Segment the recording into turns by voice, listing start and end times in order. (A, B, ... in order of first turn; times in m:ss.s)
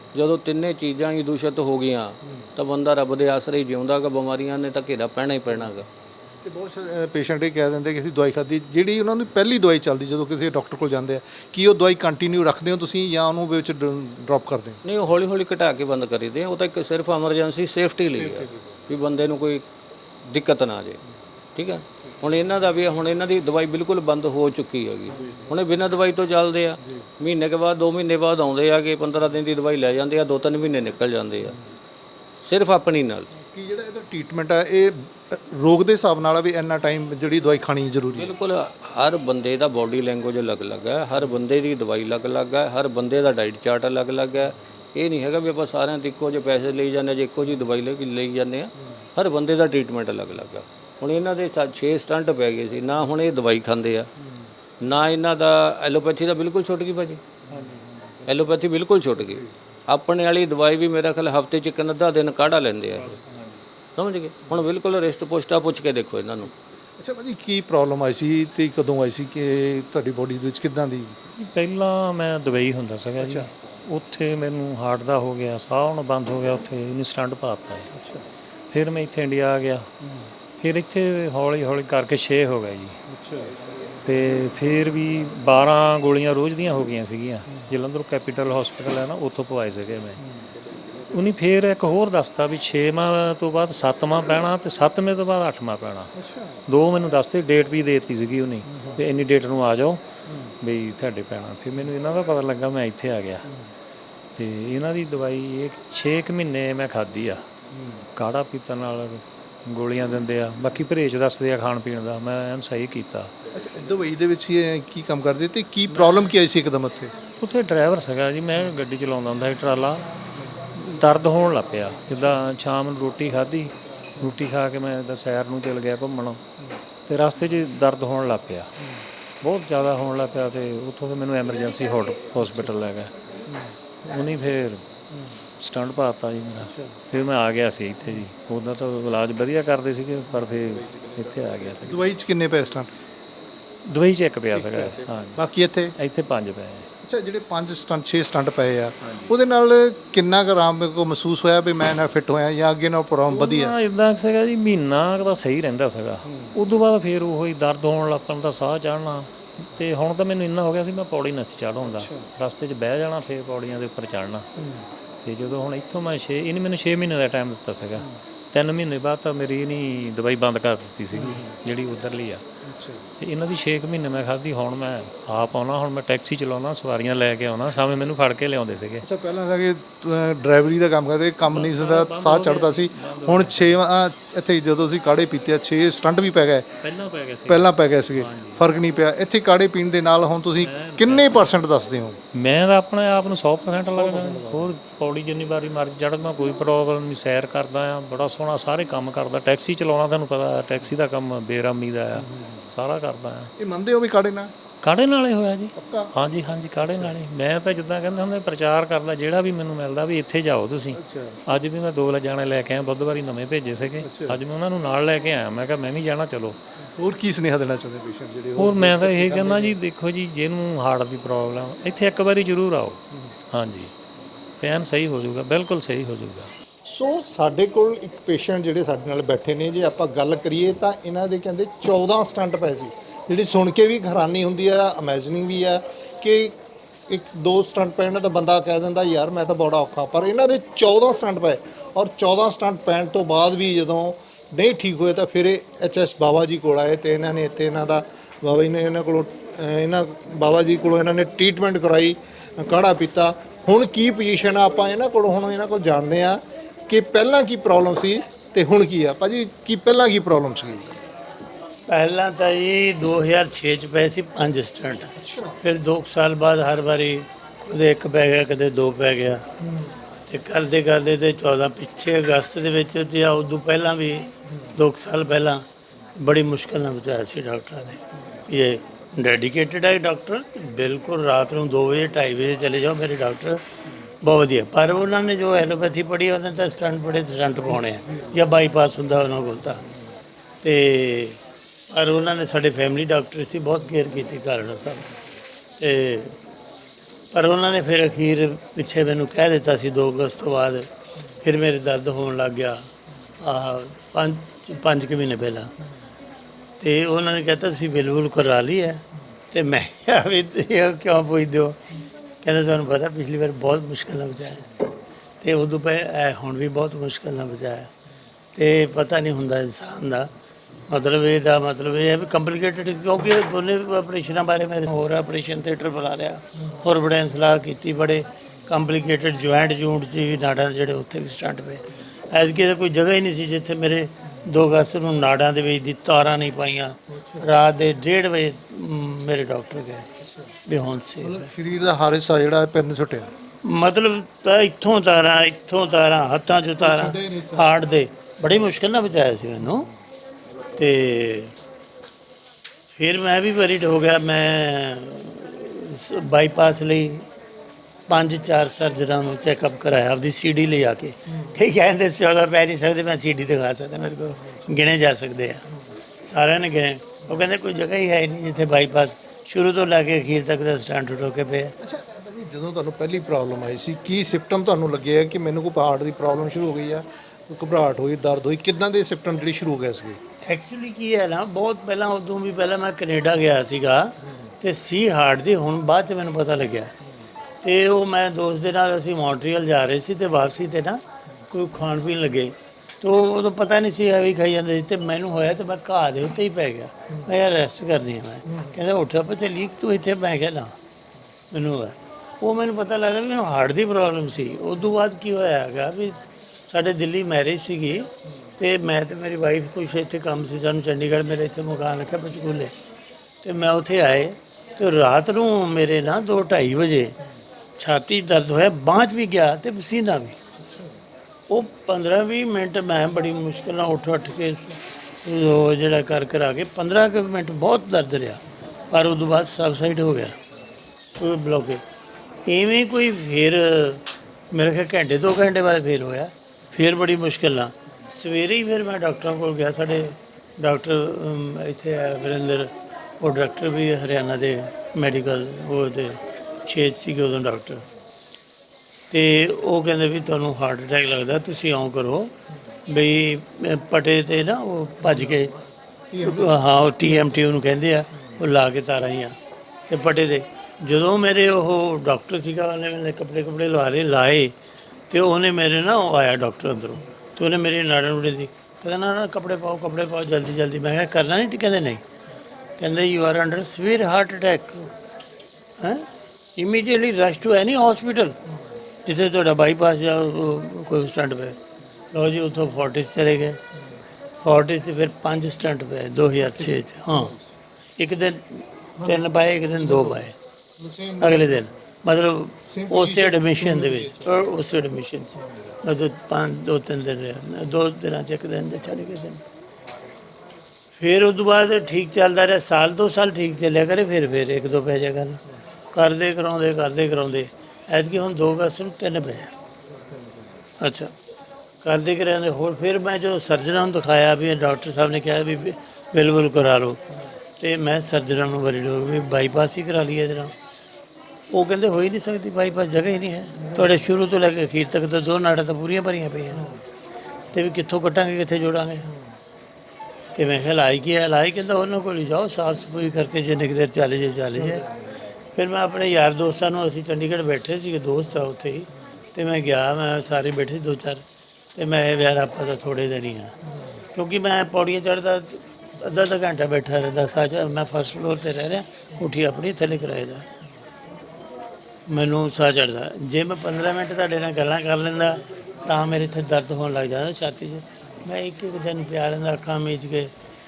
0:00.1-0:05.9 A
0:06.4-0:14.8 B
0:14.8-0:19.6 A
0:18.2-0:18.7 B
0:20.3-0:21.0 A
0:21.6-0:31.6 A
0:25.1-0:25.5 B
0:32.4-0:33.3 A
0:33.4-0:38.3 B
0:38.1-0:54.1 A
0:54.2-0:54.5 B
0:54.8-0:57.2 A
0:57.5-0:58.1 B
0:58.2-1:03.2 A
1:04.0-1:06.5 A
1:07.0-1:11.2 B
1:11.4-1:17.9 C
1:13.2-1:13.5 B
1:17.9-1:18.3 B
1:18.7-1:19.9 C
1:20.0-1:20.3 B
1:20.6-1:23.0 C
1:23.1-1:23.5 B
1:24.0-1:30.2 C
1:30.2-1:30.5 B
1:31.1-1:36.1 C
1:36.1-1:36.6 B
1:36.7-1:40.0 C
1:38.7-1:39.0 B
1:40.3-1:40.5 B
1:40.6-1:43.5 C
1:44.4-1:47.4 C
1:47.7-1:48.0 B
1:48.2-1:53.3 C
1:53.5-1:57.1 B
1:55.9-1:56.3 C
1:57.4-2:00.0 C
2:00.8-2:06.4 C
2:07.1-2:08.7 C
2:09.4-2:13.1 C
2:13.5-2:13.7 B
2:14.0-2:14.8 C
2:15.6-2:22.1 C
2:16.6-2:17.0 B
2:21.8-2:22.9 B
2:23.9-2:25.4 C
2:24.5-2:25.9 B
2:26.0-2:26.9 C
2:27.0-2:33.7 B
2:29.0-2:29.3 C
2:33.3-2:44.5 C
2:36.3-2:36.5 B
2:41.9-2:42.2 B
2:44.6-2:44.9 B
2:45.2-2:52.4 C
2:51.1-2:51.5 B
2:52.6-2:53.0 B
2:53.2-2:59.0 C
2:59.0-3:06.7 B
3:01.5-3:03.8 C
3:06.8-3:08.8 C
3:07.5-3:12.2 B
3:10.6-3:11.2 C
3:12.3-3:23.5 C
3:13.9-3:14.7 B
3:22.2-3:22.6 B
3:23.6-3:24.5 B
3:24.8-3:36.6 C
3:25.8-3:26.1 B
3:26.8-3:27.1 B
3:31.0-3:31.4 B
3:34.0-3:34.4 B
3:37.0-3:39.8 B
3:38.6-3:43.9 C
3:44.6-3:46.5 C
3:46.8-3:56.5 B
3:57.1-4:20.9 B
4:21.9-4:29.4 D
4:25.2-4:25.6 B
4:29.7-4:29.9 B
4:30.3-4:35.6 D
4:36.2-4:43.6 D
4:44.2-4:49.8 D
4:50.6-4:51.4 D
4:51.9-4:55.1 D
4:55.8-4:56.4 D
4:57.3-5:00.9 D
5:01.4-5:02.9 D
5:03.4-5:05.7 D
5:06.8-5:11.8 D
5:12.4-5:17.9 D
5:18.5-5:20.3 D
5:20.9-5:40.0 D
5:37.1-5:37.4 B
5:40.2-5:40.5 B
5:40.6-5:41.5 D
5:41.2-5:43.3 B
5:43.6-5:49.9 D
5:46.8-5:47.8 B
5:50.8-5:51.5 D
5:53.0-5:57.2 D
5:58.1-6:05.6 D
6:04.4-6:04.7 B
6:06.2-6:11.7 D
6:11.8-6:20.2 B
6:20.4-6:26.9 D
6:27.6-6:40.7 D
6:41.5-6:52.7 D
6:53.4-6:57.1 D
6:57.8-7:00.4 D
7:00.6-7:01.0 B
7:01.5-7:10.3 D
7:11.2-7:11.8 D
7:12.5-7:27.8 D
7:29.1-7:32.3 D
7:32.9-7:35.5 D
7:35.1-7:35.5 B
7:36.1-7:36.6 B
7:36.2-7:39.3 D
7:39.9-7:44.5 D
7:45.1-7:52.0 D
7:52.8-7:54.9 D
7:55.8-7:58.4 D
7:59.0-8:01.6 D
8:02.1-8:03.6 D
8:04.4-8:07.3 D
8:06.5-8:07.4 B
8:08.0-8:10.3 D
8:09.8-8:10.2 B
8:10.8-8:11.7 B
8:11.2-8:19.4 D
8:12.7-8:14.3 B
8:21.0-8:25.4 D
8:25.9-8:29.5 D
8:30.0-8:30.3 B
8:30.8-8:31.1 D
8:31.8-8:37.0 D
8:37.6-8:40.5 D
8:41.5-8:46.7 D
8:47.5-8:49.1 D
8:50.3-8:54.9 D
8:54.7-8:55.0 B
8:55.5-9:01.2 D
9:01.7-9:03.5 D
9:04.1-9:10.5 D
9:12.1-9:20.3 D